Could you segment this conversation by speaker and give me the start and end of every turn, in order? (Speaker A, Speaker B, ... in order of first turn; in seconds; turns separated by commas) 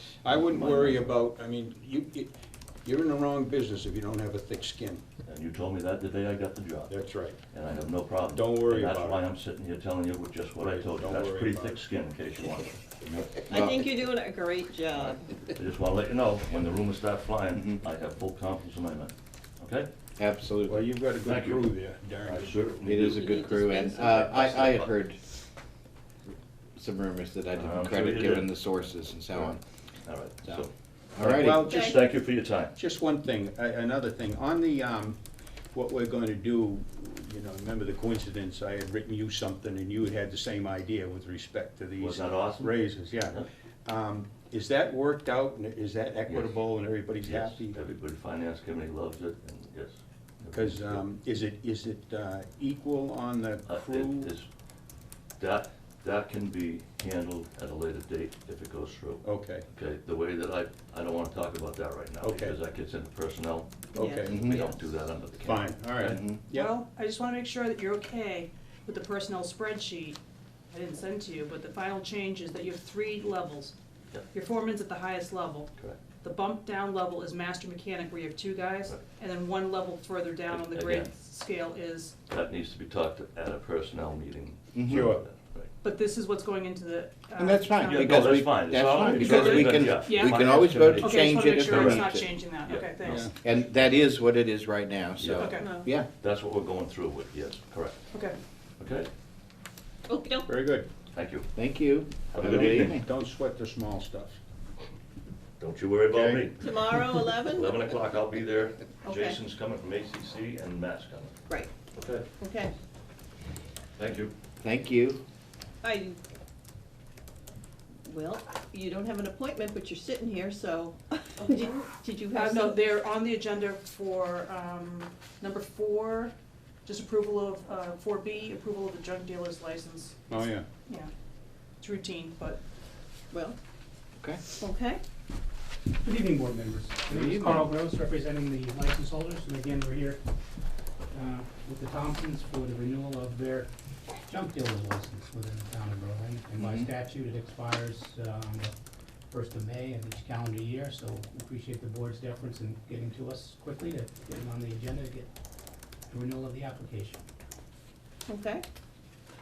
Speaker A: 0.2-5.0, Speaker B: 0.3-1.2, Speaker B: 5.3-13.3, Speaker A: 6.9-7.4, Speaker A: 8.3-9.3, Speaker A: 10.6-11.8, Speaker C: 13.5-15.2, Speaker D: 13.5-13.8, Speaker B: 14.9-19.9, Speaker D: 20.2-20.8, Speaker A: 20.7-22.6, Speaker B: 21.3-21.7, Speaker B: 22.2-24.9, Speaker D: 22.8-25.2, Speaker C: 23.0-24.3, Speaker D: 26.8-29.6, Speaker B: 27.5-28.5, Speaker B: 30.0-30.7, Speaker D: 30.5-31.7, Speaker A: 31.2-32.0, Speaker B: 31.3-32.8, Speaker C: 31.7-32.0, Speaker A: 32.8-35.2, Speaker A: 35.7-47.8, Speaker B: 42.0-42.8, Speaker B: 46.3-51.0, Speaker A: 50.5-54.3, Speaker B: 53.7-54.5, Speaker B: 55.4-66.2, Speaker A: 59.2-59.6, Speaker A: 62.2-62.6, Speaker A: 63.9-64.7, Speaker C: 64.0-64.7, Speaker D: 64.3-64.7, Speaker A: 65.4-66.7, Speaker D: 66.0-66.4, Speaker E: 66.5-70.2, Speaker E: 70.7-73.8, Speaker E: 74.3-82.2, Speaker B: 80.5-81.1, Speaker B: 82.3-85.7, Speaker D: 84.8-85.1, Speaker A: 84.9-85.2, Speaker E: 85.8-88.2, Speaker D: 87.4-92.3, Speaker B: 87.9-93.3, Speaker A: 89.2-91.0, Speaker E: 90.0-90.4, Speaker E: 91.0-93.3, Speaker A: 93.0-93.3, Speaker D: 93.4-96.1, Speaker B: 95.2-98.0, Speaker E: 95.4-95.8, Speaker C: 95.6-95.9, Speaker E: 98.1-98.4, Speaker B: 98.8-99.1, Speaker C: 100.1-100.5, Speaker A: 100.5-100.9, Speaker B: 101.1-101.5, Speaker D: 101.6-103.0, Speaker B: 102.3-103.0, Speaker A: 102.4-104.4, Speaker B: 105.6-111.4, Speaker A: 106.1-106.5, Speaker C: 106.6-107.8, Speaker C: 109.0-109.4, Speaker B: 111.9-112.2, Speaker C: 112.4-112.7, Speaker B: 114.0-114.3, Speaker D: 114.6-115.2, Speaker C: 115.8-116.2, Speaker C: 118.1-122.8, Speaker E: 122.3-126.3, Speaker E: 126.8-131.1, Speaker A: 130.3-130.7, Speaker E: 131.8-132.6, Speaker C: 133.3-133.6, Speaker D: 134.2-134.4, Speaker C: 134.5-135.0, Speaker F: 136.0-140.2, Speaker D: 137.1-137.7, Speaker F: 141.1-148.7, Speaker D: 146.6-146.9, Speaker F: 149.3-155.3, Speaker F: 156.1-157.2, Speaker C: 158.3-158.6